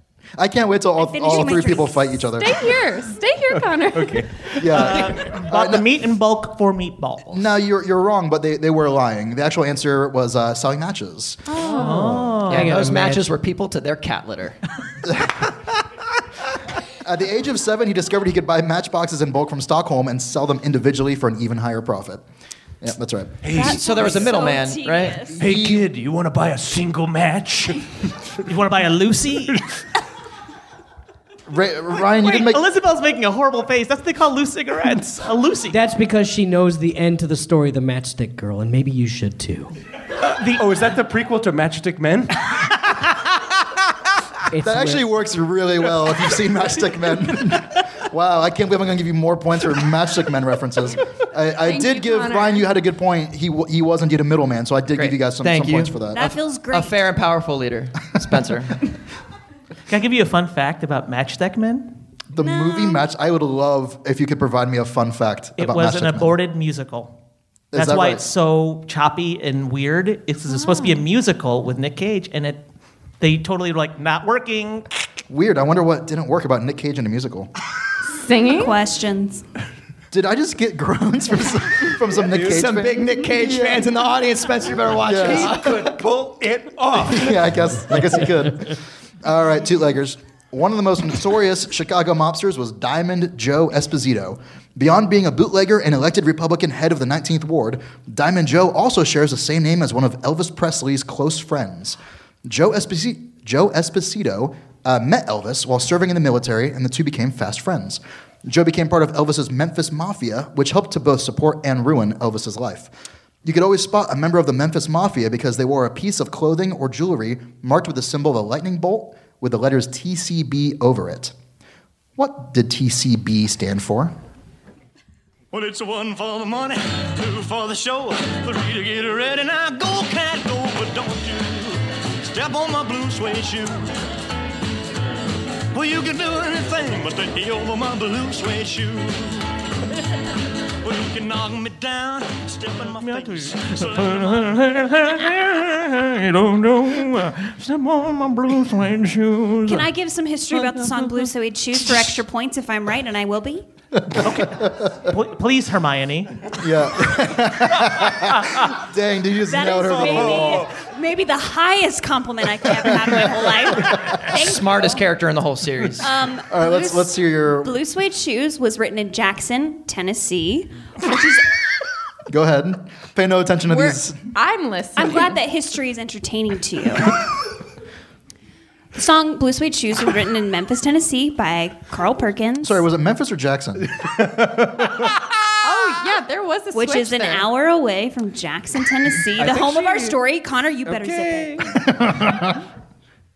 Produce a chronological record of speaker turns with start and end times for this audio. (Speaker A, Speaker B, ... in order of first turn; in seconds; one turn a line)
Speaker A: 0.4-2.6
Speaker B: 1.0-2.2
Speaker C: 2.4-4.3
Speaker D: 3.6-4.7
Speaker A: 4.6-5.9
Speaker E: 4.6-7.5
Speaker A: 7.3-11.5
Speaker C: 11.5-12.2
Speaker E: 11.7-12.8
Speaker F: 12.5-13.3
Speaker G: 12.5-14.6
Speaker A: 15.1-15.4
Speaker A: 17.0-22.2
Speaker A: 22.8-23.4
Speaker D: 23.4-24.1
Speaker B: 23.5-25.4
Speaker G: 23.6-25.2
Speaker A: 25.4-25.9
Speaker D: 25.4-27.9
Speaker E: 28.5-29.6
Speaker A: 31.5-32.6
Speaker E: 32.2-35.8
Speaker F: 35.7-39.7
Speaker D: 40.4-42.6
Speaker F: 44.5-45.1
Speaker A: 44.6-56.2
Speaker C: 51.6-52.7
Speaker G: 55.0-58.9
Speaker B: 56.1-57.0
Speaker E: 59.9-61.9
Speaker A: 62.3-66.4
Speaker B: 62.4-63.0
Speaker E: 65.6-67.1
Speaker A: 67.7-68.3
Speaker E: 67.7-72.7
Speaker E: 73.2-74.9
Speaker A: 75.3-77.5
Speaker C: 78.1-78.8
Speaker B: 78.5-79.4
Speaker A: 80.1-83.9
Speaker G: 82.3-85.9
Speaker A: 85.0-85.9
Speaker D: 85.2-87.5
Speaker A: 86.9-112.9
Speaker A: 113.4-121.3
Speaker A: 122.2-124.1
Speaker H: 125.5-133.9
Speaker H: 135.7-139.5
Speaker H: 140.8-144.7
Speaker E: 142.8-149.9
Speaker B: 149.7-153.7
Speaker E: 150.5-151.2
Speaker A: 154.0-154.9
Speaker E: 154.2-156.5
Speaker A: 156.6-160.7
Speaker B: 159.5-165.0
Speaker D: 159.9-160.6
Speaker G: 164.2-166.1
Speaker B: 166.0-167.1
Speaker A: 166.5-167.8
Speaker B: 167.6-171.4
Speaker A: 172.3-174.2
Speaker C: 173.7-175.4
Speaker B: 175.0-177.2
Speaker B: 178.9-182.8
Speaker A: 182.6-183.9
Speaker D: 184.0-184.9
Speaker C: 185.6-187.5
Speaker B: 186.7-191.9
Speaker D: 189.4-190.2
Speaker D: 190.9-191.7
Speaker A: 192.0-192.3